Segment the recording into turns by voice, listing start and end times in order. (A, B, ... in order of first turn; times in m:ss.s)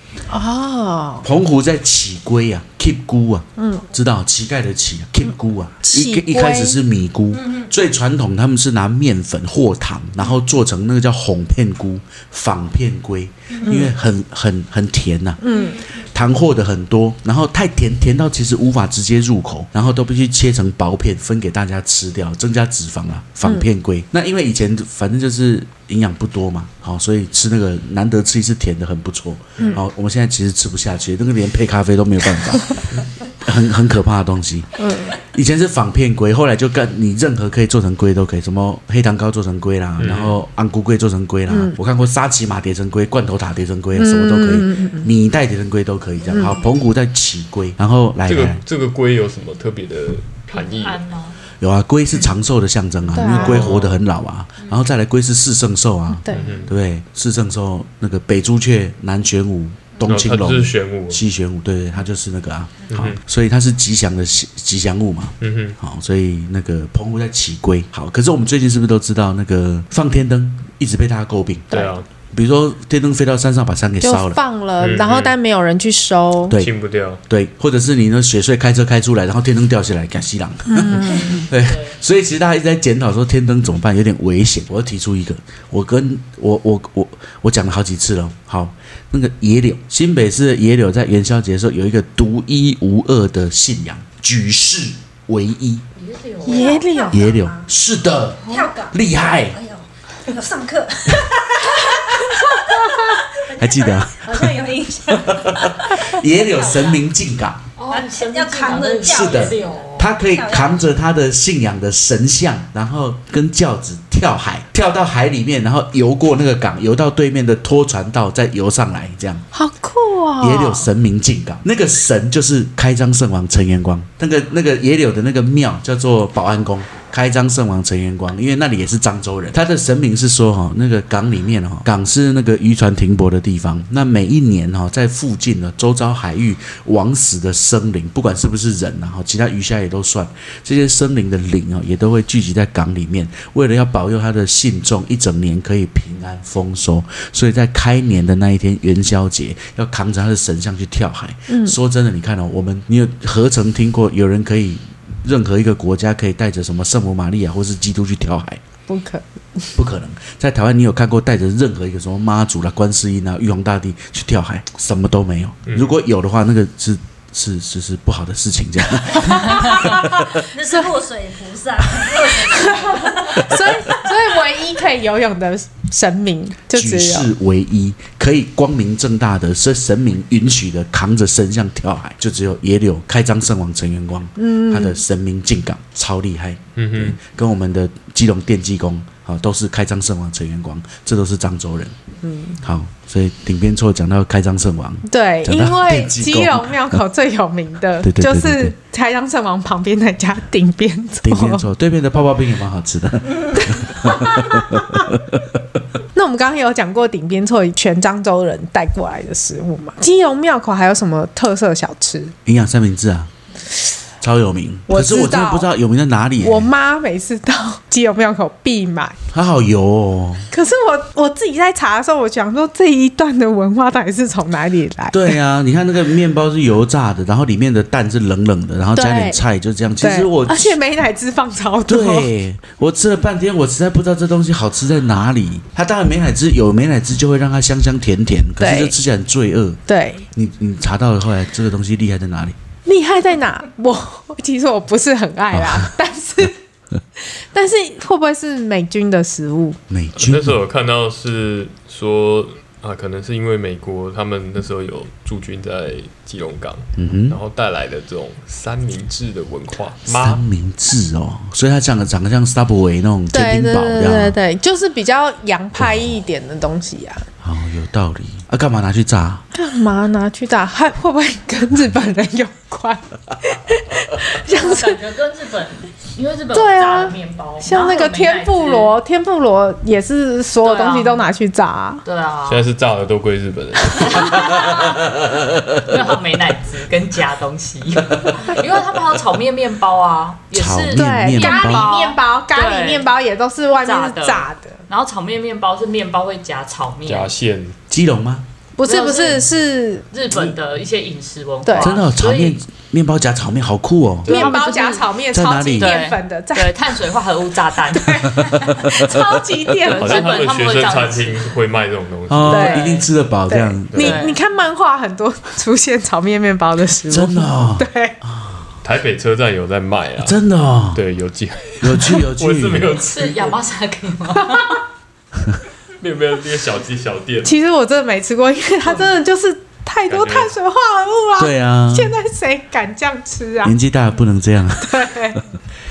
0:00.3-0:01.3 A
0:01.2-0:48.6 B
0:03.6-0:03.8 A
0:05.8-0:06.8 A
0:13.6-0:13.9 A
0:15.4-0:15.8 A
0:34.8-0:35.2 A
0:40.0-0:40.4 C
0:41.5-0:41.8 A
0:44.0-0:45.1 A
0:46.3-0:46.6 A
0:48.3-0:51.0 C
0:50.5-0:51.4 D
0:51.6-1:14.4 B
0:53.1-0:53.7 A
0:53.2-0:54.0 C
0:56.2-0:56.6 A
0:56.3-0:56.7 C
1:00.0-1:01.2 C
1:02.9-1:03.2 C
1:05.4-1:05.8 C
1:11.7-1:12.1 C
1:14.0-1:16.6 A
1:14.8-1:15.4 C
1:16.5-1:17.2 C
1:17.3-1:35.9 B
1:20.7-1:21.4 A
1:21.2-1:22.0 D
1:36.0-1:37.0 D
1:36.4-1:37.3 A
1:36.5-1:37.6 E
1:37.1-1:39.6 B
1:38.4-1:47.0 E
1:41.8-1:43.2 A
1:43.5-1:47.6 B
1:47.8-1:50.1 D
1:47.9-1:51.0 E
1:49.0-1:59.5 B
1:59.5-2:00.9 A
2:00.4-2:38.6 B
2:31.5-2:31.8 A
2:38.9-2:39.7 A
2:39.8-2:50.3 B
2:45.7-2:46.0 C
2:49.2-2:50.9 A
2:50.4-2:53.9 E
2:52.1-2:57.3 A
2:56.7-3:12.0 B
3:04.4-3:05.0 A
3:06.8-3:07.2 C
3:12.2-3:12.6 A
3:12.6-3:17.0 B
3:15.1-3:21.7 A
3:18.0-3:18.8 B
3:21.2-3:25.8 B
3:23.6-3:25.1 A
3:26.1-3:32.4 A
3:32.5-3:33.3 B
3:34.2-3:36.7 B
3:34.9-3:35.7 A
3:36.4-3:39.2 A
3:39.3-3:40.5 B
3:40.5-3:45.4 A
3:45.1-3:50.8 B
3:49.0-3:49.4 A
3:50.0-3:52.3 A
3:51.9-3:59.8 B
3:58.6-3:59.0 A
3:59.9-4:00.3 A
4:00.3-4:02.6 B
4:02.9-4:06.6 A
4:05.5-4:05.9 B
4:07.3-4:09.8 A
4:09.9-4:10.6 B
4:10.2-4:20.4 C
4:17.0-4:17.4 B
4:20.1-4:24.4 B
4:23.3-4:27.3 A
4:25.8-4:26.2 B
4:27.4-4:29.4 B
4:29.5-4:35.0 A
4:34.4-4:39.0 D
4:36.5-4:42.0 A
4:40.6-4:41.3 D
4:42.0-4:42.7 D
4:42.5-4:44.8 C
4:43.9-4:53.1 D
4:50.5-4:51.9 B
4:50.9-4:54.8 A
4:53.8-4:57.3 D
4:57.1-4:57.8 C
4:57.9-4:58.5 B
4:58.8-5:00.1 A
4:58.9-4:59.5 D
5:00.1-5:02.6 D
5:01.6-5:02.0 A
5:01.8-5:04.5 B
5:04.2-5:05.1 D
5:04.3-5:07.0 A
5:05.3-5:06.0 B
5:05.8-5:08.8 D
5:07.9-5:10.4 A
5:08.2-5:09.4 B
5:09.8-5:11.5 D
5:09.9-5:12.8 C
5:12.3-5:14.1 B
5:12.5-5:18.2 A
5:12.5-5:13.1 D
5:13.9-5:14.2 C
5:14.0-5:14.4 D
5:17.1-5:18.7 B
5:18.8-5:20.4 C
5:20.2-5:21.0 B
5:20.9-5:23.6 C
5:21.8-5:23.1 B
5:23.0-5:24.8 D
5:26.0-5:27.6 C
5:27.4-5:33.8 A
5:30.1-5:30.5 C
5:31.4-5:32.2 B
5:33.6-5:35.4 B
5:34.8-5:35.4 A